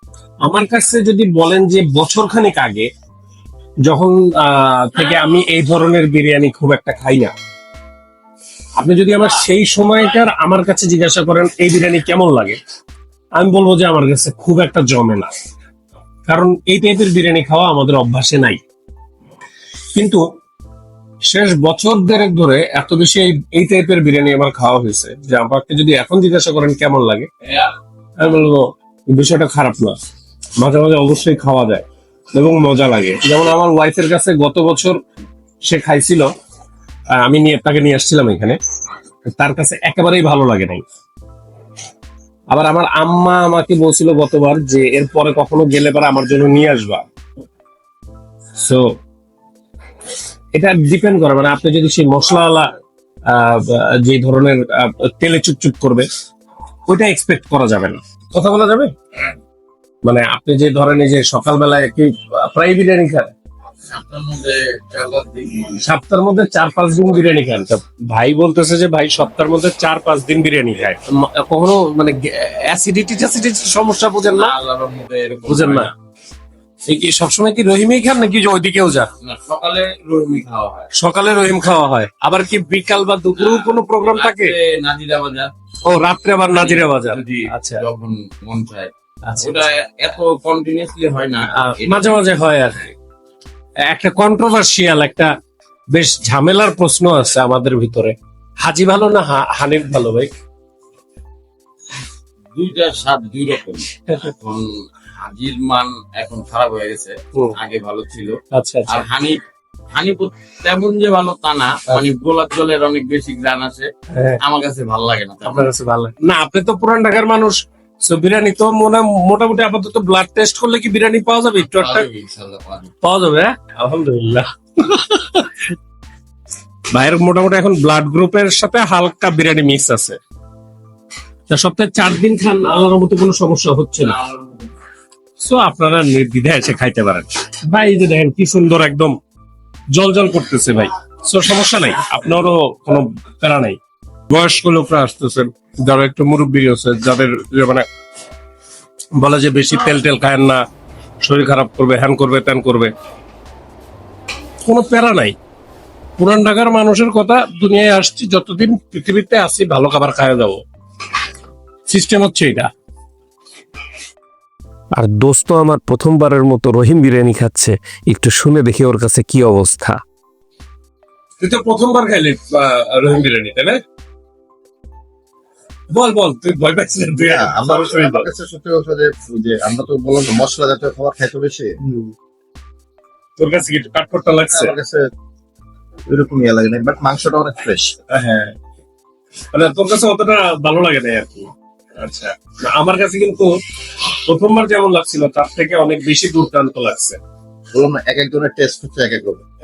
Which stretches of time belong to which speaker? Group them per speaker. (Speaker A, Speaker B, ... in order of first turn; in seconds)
Speaker A: 0.4-2.9, 3.9-7.3, 8.8-12.6, 13.4-15.3, 16.3-18.6, 19.9-20.2, 21.3-29.9, 30.6-35.0, 35.6-36.3, 37.2-38.6, 39.4-40.8, 42.5-47.0, 48.6-48.8, 50.5-52.7, 53.3-56.1, 56.9-58.9, 60.0-63.3, 65.7-74.6, 75.5-75.9, 76.9-79.1, 81.0-84.5, 85.9-87.8, 91.5-92.9, 93.9-95.3, 95.9-100.3, 108.5-109.0, 114.1-114.4, 115.4-122.1, 123.0-125.7, 126.9-130.2, 131.5-134.3, 135.4-139.2, 139.9-143.8, 144.3-147.9, 149.2-150.6, 151.2-152.9, 154.7-155.3, 156.2-160.6, 161.9-162.7, 171.4-173.8, 175.9-178.3, 183.4-184.8, 188.1-188.5, 189.5-191.5, 192.0-197.2
Speaker B: 63.9-65.7, 74.2-75.9, 79.2-80.9, 83.4-85.5, 86.5-92.2, 102.5-109.4, 109.9-113.9, 114.4-115.7, 121.6-122.9
Speaker C: 165.0-170.0
Speaker D: 177.2-182.1, 184.5-185.1, 186.1-188.1, 197.7-199.4